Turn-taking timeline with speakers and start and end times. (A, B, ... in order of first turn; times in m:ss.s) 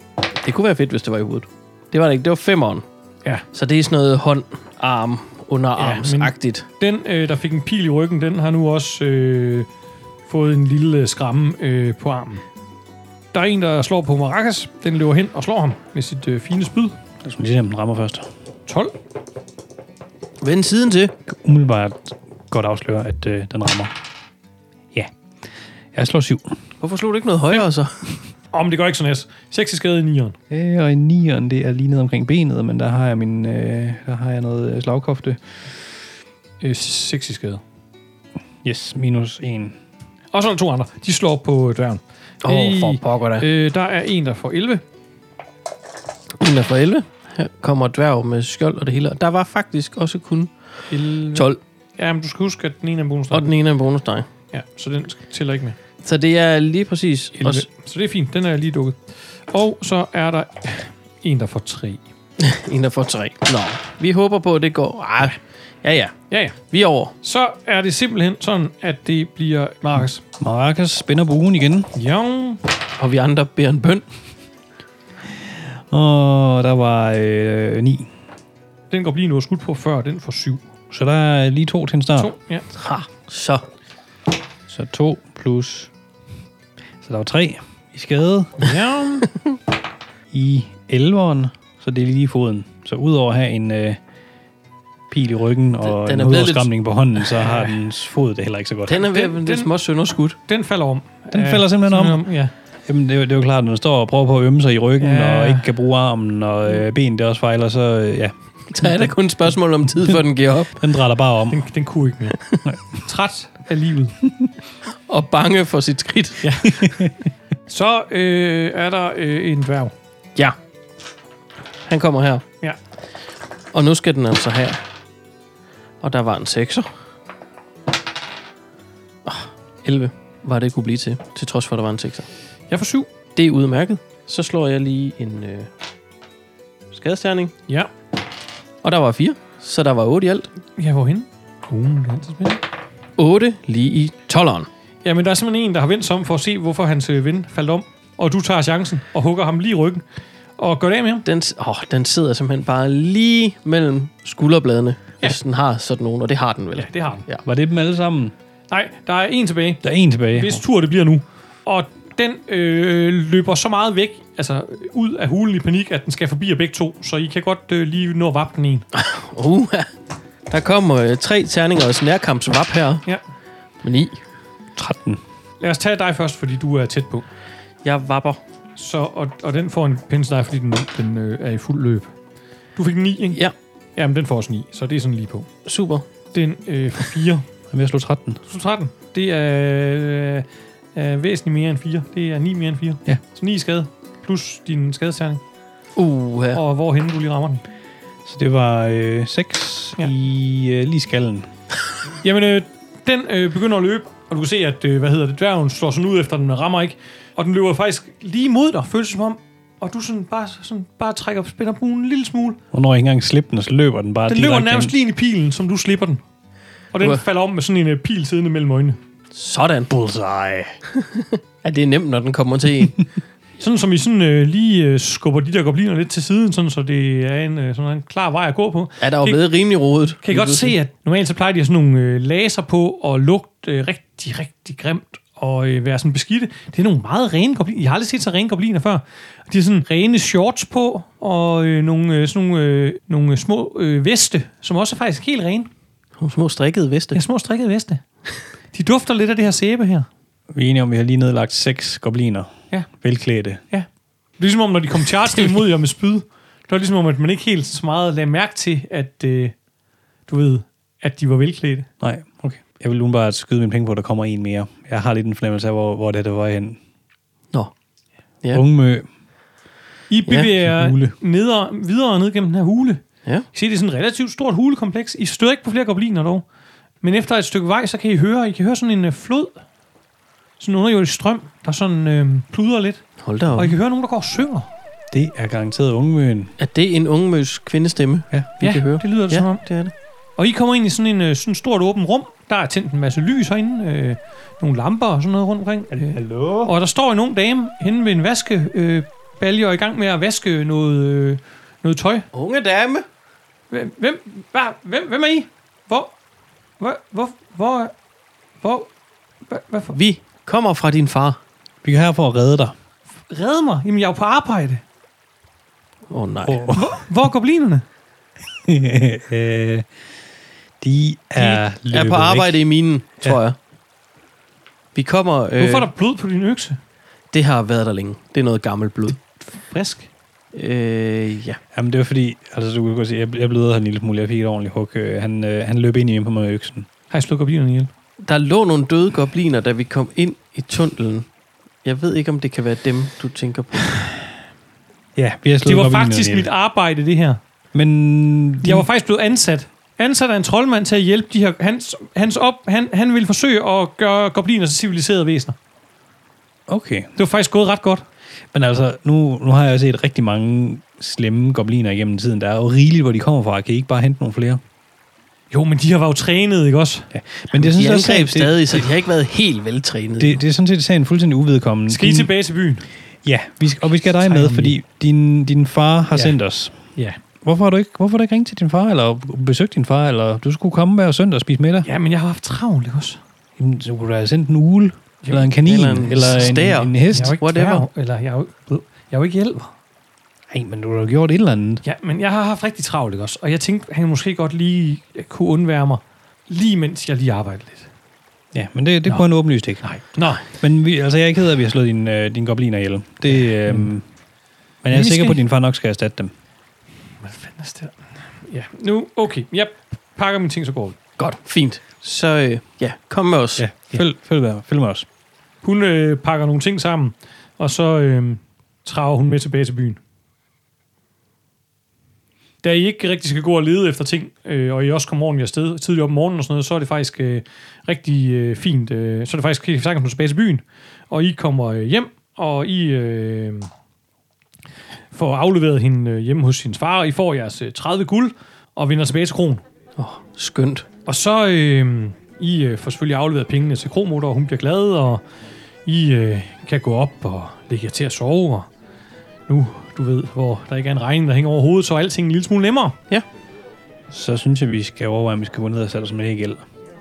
0:00.4-0:02.8 A
0:03.5-0:06.6 A
0:05.8-0:09.7 B
0:10.2-0:12.4 B
0:13.3-0:17.0 B
0:17.2-0:18.3 C
0:18.7-0:18.9 B
0:20.4-0:21.1 A
0:21.3-0:23.9 C
0:25.9-0:26.6 C
0:26.8-0:28.1 A
0:28.5-0:30.4 B
0:30.5-0:35.4 C
0:36.6-0:37.6 B
0:38.6-0:39.8 C
0:40.3-0:44.8 B
0:42.4-0:43.5 A
0:46.4-0:50.5 A
0:50.9-0:53.5 B
0:53.3-0:54.3 A
0:54.5-0:55.8 B
0:56.0-0:57.6 A
0:57.4-0:59.0 B
0:59.5-1:02.0 B
1:02.4-1:06.2 A
1:06.3-1:06.6 B
1:06.7-1:07.1 A
1:07.2-1:10.2 B
1:10.4-1:11.9 C
1:11.9-1:12.6 B
1:13.0-1:14.0 A
1:15.7-1:18.1 C
1:18.9-1:20.6 B
1:20.9-1:22.3 C
1:22.2-1:22.6 B
1:22.7-1:23.6 A
1:24.7-1:25.9 C
1:27.0-1:28.7 C
1:28.6-1:29.3 B
1:30.3-1:34.0 C
1:35.1-1:39.1 C
1:35.9-1:36.7 A
1:38.9-1:40.4 A
1:39.0-1:39.7 B
1:40.5-1:42.5 B
1:41.3-1:42.2 C
1:42.9-1:49.1 C
1:45.0-1:45.6 B
1:48.7-1:50.8 A
1:50.8-1:51.6 C
1:51.5-1:52.4 B
1:52.6-1:53.0 C
1:53.0-1:54.2 B
1:55.1-1:56.5 A
1:56.4-1:56.9 B
1:56.8-1:57.1 C
1:57.7-1:59.9 B
2:01.9-2:02.4 A
2:03.7-2:04.8 A
2:06.0-2:06.9 A
2:09.2-2:12.3 A
2:12.7-2:13.1 B
2:13.4-2:15.7 A
2:16.9-2:17.5 A
2:18.8-2:20.5 A
2:20.8-2:22.6 B
2:23.2-2:24.7 A
2:25.0-2:30.0 B
2:30.6-2:31.2 B
2:31.2-2:37.4 A
2:36.8-2:37.2 B
2:37.4-2:38.3 C
2:38.7-2:48.8 B
2:39.8-2:40.6 C
2:48.9-2:49.9 A
2:50.5-2:53.0 A
2:53.8-2:54.2 A
2:54.8-2:55.2 C
2:55.6-2:57.2 B
2:57.8-2:58.4 A
2:58.8-3:02.1 B
3:02.8-3:03.4 B
3:04.0-3:05.5 B
3:05.6-3:06.1 A
3:06.3-3:07.5 B
3:07.7-3:08.4 C
3:08.5-3:15.4 B
3:16.0-3:16.6 A
3:16.5-3:17.6 B
3:18.2-3:21.5 C
3:22.2-3:32.6 B
3:32.7-3:34.9 C
3:34.3-3:36.2 B
3:36.9-3:39.0 B
3:39.3-3:39.9 A
3:39.9-3:40.7 C
3:41.0-3:43.0 A
3:43.6-3:49.4 B
3:49.0-3:50.7 A
3:50.2-4:05.7 B
4:06.2-4:07.2 A
4:07.1-4:08.0 B
4:08.7-4:10.1 B
4:10.5-4:13.6 C
4:14.4-4:19.5 B
4:20.3-4:21.9 B
4:22.0-4:26.8 C
4:28.5-4:29.1 C
4:30.1-4:33.0 B
4:30.6-4:31.1 C
4:33.5-4:36.4 B
4:37.0-4:39.6 B
4:40.6-4:44.7 B
4:43.2-4:43.8 A
4:45.1-4:46.5 C
4:46.6-4:49.9 A
4:48.6-4:49.6 B
4:50.4-5:02.2 B
4:55.9-4:56.7 C
5:02.3-5:03.0 A
5:03.7-5:06.1 B
5:06.8-5:07.9 B
5:08.6-5:08.9 B
5:09.5-5:10.0 B
5:09.9-5:11.4 A
5:11.8-5:12.7 C
5:13.3-5:14.8 B
5:16.1-5:16.6 A
5:16.4-5:17.0 C
5:16.7-5:17.8 B
5:18.6-5:19.9 C
5:20.8-5:22.6 C
5:21.4-5:23.6 A
5:24.9-5:25.9 A
5:25.6-5:26.8 B
5:27.3-5:29.2 A
5:29.5-5:30.1 B
5:30.5-5:31.6 A
5:31.7-5:36.9 C
5:37.1-5:37.9 B
5:38.2-5:41.3 A
5:41.8-5:43.9 A
5:45.2-5:46.5 C
5:45.6-5:47.4 B
5:47.7-5:48.9 C
5:48.6-5:55.6 B
5:56.7-5:57.1 C
5:57.2-5:58.0 B
5:58.5-6:04.6 C
6:05.5-6:07.1 B
6:07.1-6:08.9 C
6:07.6-6:10.4 A
6:10.2-6:12.3 C
6:11.9-6:12.8 B
6:13.2-6:16.8 C
6:14.2-6:14.8 B
6:17.4-6:21.9 C
6:21.8-6:23.2 B
6:23.6-6:27.4 C
6:25.2-6:25.5 B
6:25.6-6:27.9 A
6:27.1-6:29.7 B
6:30.5-6:31.8 C
6:31.8-6:37.9 B
6:38.5-6:39.9 C
6:39.8-6:40.4 B
6:40.5-6:44.0 C
6:44.8-6:46.3 C
6:44.9-6:45.4 B
6:47.2-6:51.0 B
6:51.2-6:53.6 A
6:53.6-6:55.1 C
6:55.6-7:00.0 B
7:02.6-7:13.7 B
7:15.1-7:19.6 B
7:20.0-7:20.9 A
7:21.1-7:25.2 B
7:25.9-7:28.7 B
7:29.5-7:33.0 B
7:34.1-7:36.6 C